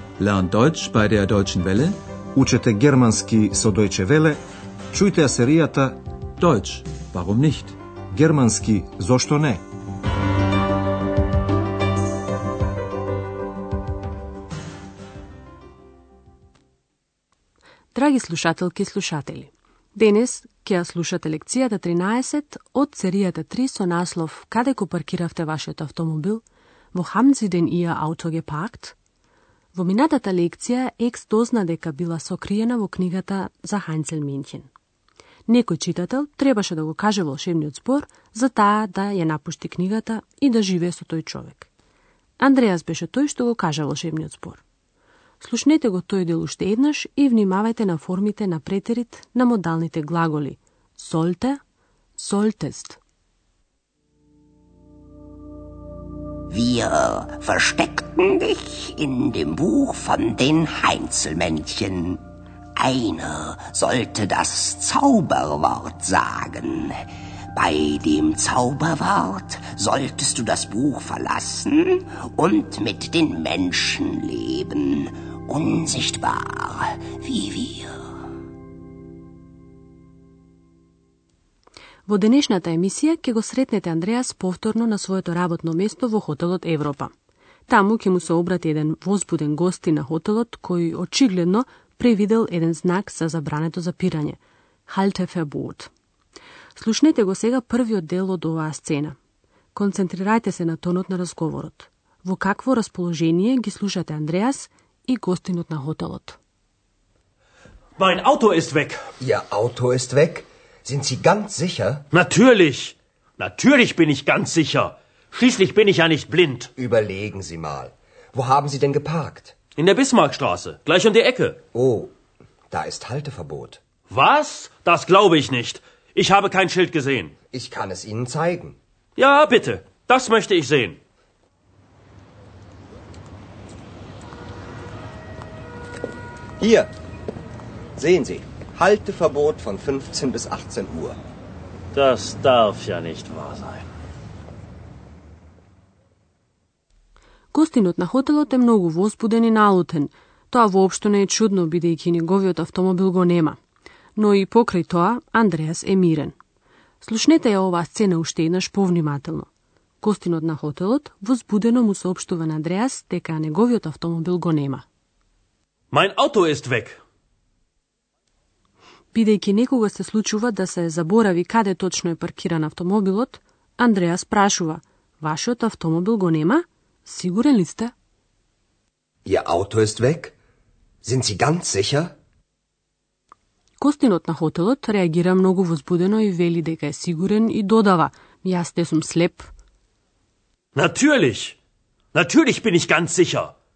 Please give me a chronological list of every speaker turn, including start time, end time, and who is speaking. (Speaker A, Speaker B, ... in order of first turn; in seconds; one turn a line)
Speaker A: 0.2-1.9
Speaker B: 2.3-4.4
Speaker B: 4.9-6.0
Speaker A: 6.4-7.8
Speaker B: 8.1-9.6
Speaker C: 17.9-28.9
Speaker C: 29.7-34.7
Speaker C: 35.5-41.7
Speaker C: 42.4-44.6
Speaker C: 45.4-51.6
Speaker C: 52.1-53.0
Speaker D: 56.5-62.2
Speaker D: 62.8-66.9
Speaker D: 67.5-78.0
Speaker C: 82.1-87.1
Speaker C: 87.7-95.9
Speaker C: 96.7-99.2
Speaker C: 99.7-106.4
Speaker E: 108.0-109.0
Speaker F: 109.2-112.0
Speaker E: 112.1-116.7
Speaker F: 116.8-119.5
Speaker E: 119.8-121.6
Speaker F: 121.7-122.1
Speaker F: 122.7-123.8
Speaker E: 124.1-127.3
Speaker F: 127.5-128.8
Speaker E: 129.2-131.0
Speaker F: 136.6-136.9
Speaker F: 138.0-141.2
Speaker E: 141.9-143.9
Speaker C: 147.5-153.6
Speaker C: 154.2-156.3
Speaker C: 157.0-159.5
Speaker C: 160.0-164.8
Speaker E: 165.9-167.0
Speaker C: 169.1-177.9
Speaker F: 179.2-180.3
Speaker F: 181.0-182.1
Speaker C: 183.8-189.5
Speaker E: 190.7-191.6
Speaker E: 192.1-193.5